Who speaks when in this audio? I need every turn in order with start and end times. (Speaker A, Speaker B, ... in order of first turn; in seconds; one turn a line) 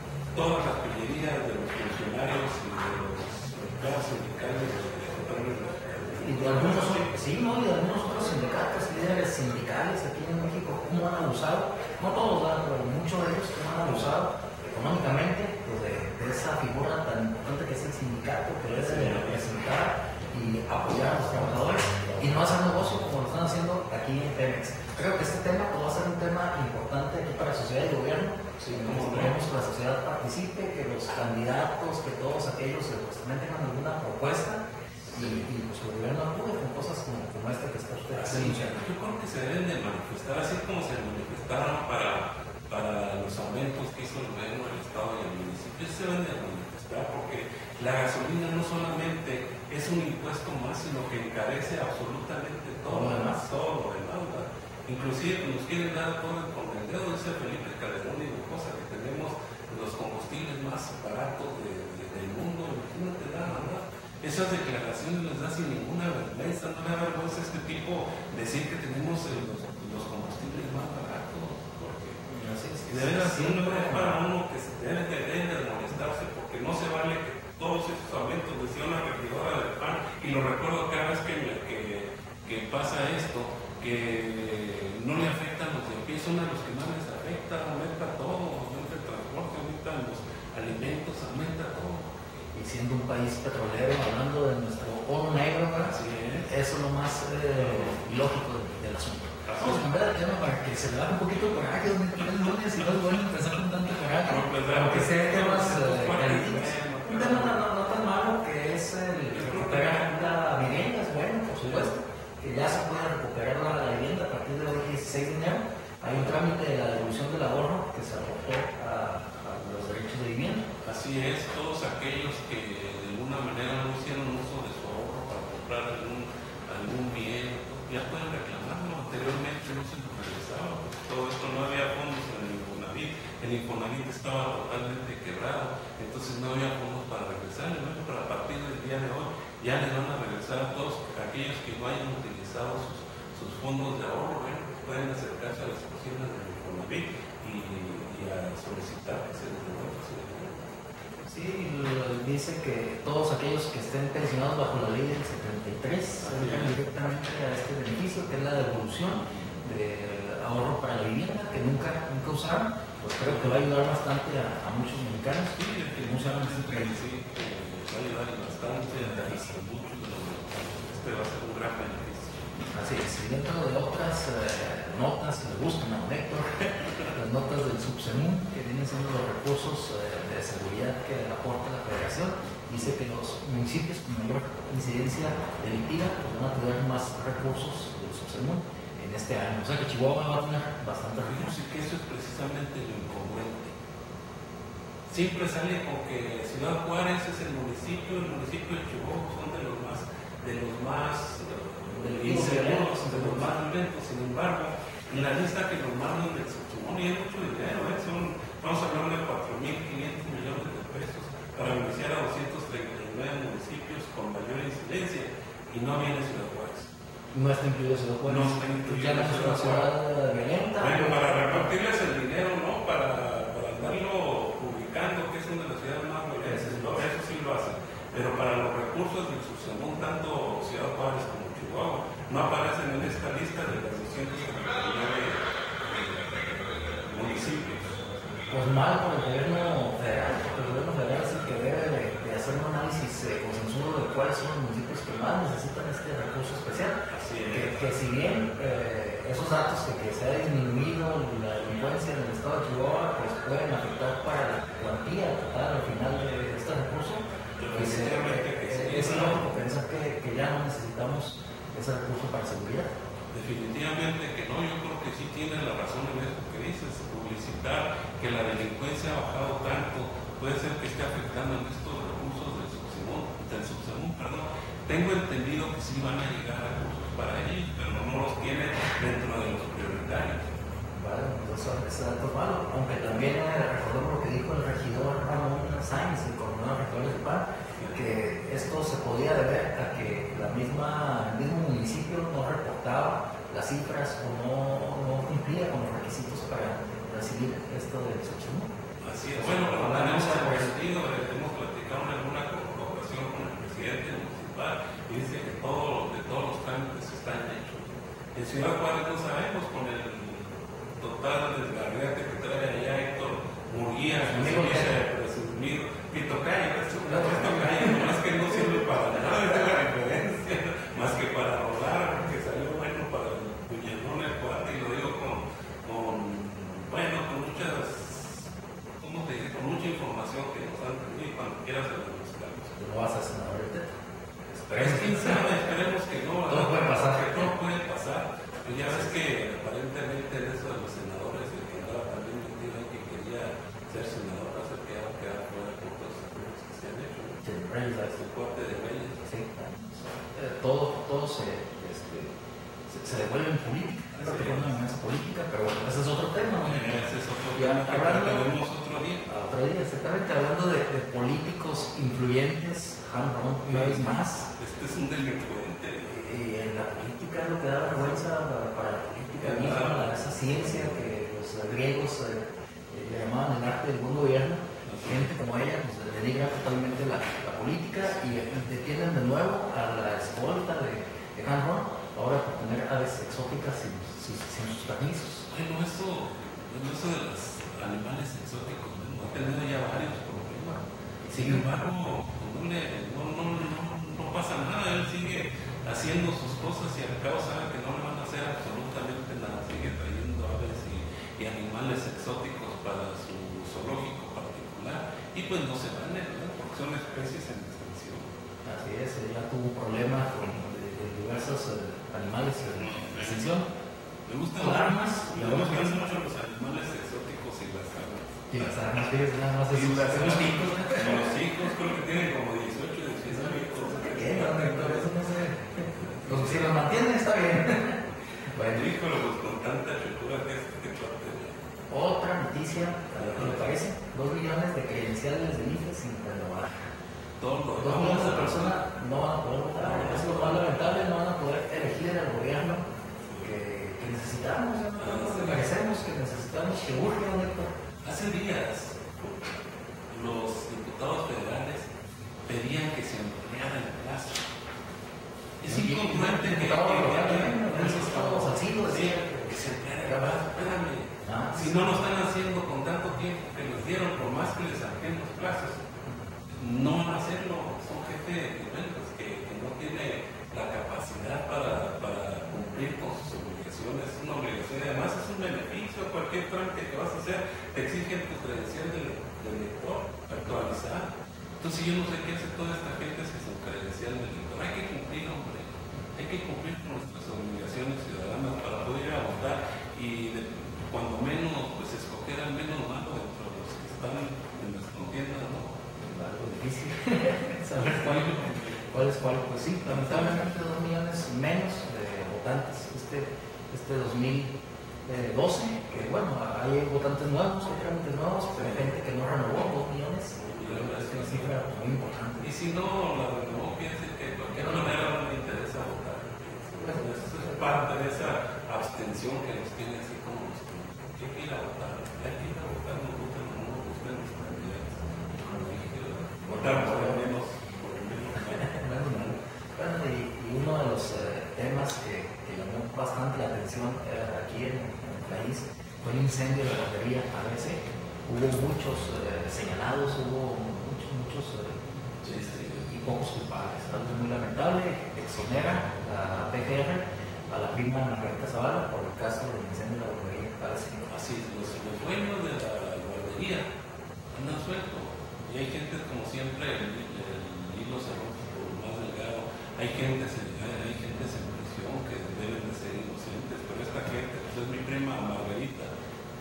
Speaker A: 0.3-7.1
Speaker B: 6.2-38.8
Speaker A: 13.8-14.1
Speaker A: 18.7-19.6
Speaker A: 20.8-22.6
Speaker A: 28.6-29.4
Speaker A: 35.1-35.5
Speaker A: 38.1-72.2
Speaker B: 52.9-53.5
Speaker B: 72.3-74.2
Speaker A: 72.8-92.1
Speaker B: 92.5-120.6
Speaker A: 95.8-96.5
Speaker A: 97.6-97.9
Speaker A: 99.5-99.9
Speaker A: 104.2-107.6
Speaker A: 109.3-110.4
Speaker A: 111.6-111.9
Speaker A: 116.1-116.4
Speaker A: 120.8-150.8
Speaker B: 151.3-167.0
Speaker A: 156.2-156.8
Speaker A: 159.2-159.6
Speaker A: 163.2-163.7
Speaker A: 165.5-172.5
Speaker B: 168.9-169.6
Speaker B: 172.7-191.6
Speaker A: 191.2-193.7
Speaker A: 195.1-216.9
Speaker B: 201.9-203.6
Speaker B: 217.3-221.8
Speaker A: 218.2-219.9
Speaker A: 220.8-238.4
Speaker B: 226.4-227.0
Speaker B: 238.5-262.9
Speaker A: 247.1-247.9
Speaker A: 257.6-259.5
Speaker A: 263.3-280.4
Speaker B: 280.9-298.7
Speaker A: 299.0-328.5
Speaker B: 299.3-300.8
Speaker B: 314.2-314.9
Speaker B: 317.1-318.8
Speaker A: 329.0-332.7
Speaker B: 332.8-333.9
Speaker B: 334.5-335.8
Speaker A: 334.7-347.4
Speaker B: 336.5-337.5
Speaker B: 347.4-348.2
Speaker A: 348.0-349.3
Speaker B: 349.2-352.3
Speaker B: 352.9-358.5
Speaker A: 354.1-354.8
Speaker A: 356.6-359.2
Speaker B: 359.2-364.5
Speaker A: 363.6-366.1
Speaker B: 366.1-385.5
Speaker A: 369.4-371.1
Speaker A: 374.8-375.3
Speaker A: 385.5-408.3
Speaker B: 391.2-391.7
Speaker B: 408.6-413.7
Speaker A: 412.7-413.6
Speaker A: 414.3-419.0
Speaker B: 414.6-416.1
Speaker B: 418.5-421.5
Speaker A: 419.7-425.1
Speaker B: 423.3-428.0
Speaker A: 425.9-426.8
Speaker B: 428.5-428.9
Speaker A: 428.7-431.6
Speaker B: 431.9-436.8
Speaker A: 433.1-433.7
Speaker A: 437.4-438.9
Speaker B: 437.7-442.9
Speaker A: 439.8-441.0
Speaker A: 443.2-443.5
Speaker B: 443.4-447.7
Speaker A: 445.0-445.7
Speaker A: 448.0-451.9
Speaker A: 452.5-454.5
Speaker A: 455.6-465.8
Speaker B: 455.7-460.4
Speaker B: 461.2-462.0
Speaker A: 466.6-481.1
Speaker A: 481.6-495.7
Speaker B: 496.0-504.5
Speaker A: 497.7-498.9
Speaker A: 499.8-500.5
Speaker B: 505.0-512.5
Speaker A: 508.5-508.9
Speaker A: 510.3-511.6
Speaker A: 512.4-529.4
Speaker B: 514.5-515.1
Speaker B: 516.8-518.0
Speaker B: 526.4-527.3
Speaker B: 528.3-541.8
Speaker A: 542.2-542.9
Speaker B: 542.7-551.1
Speaker A: 551.1-553.7
Speaker A: 554.3-565.9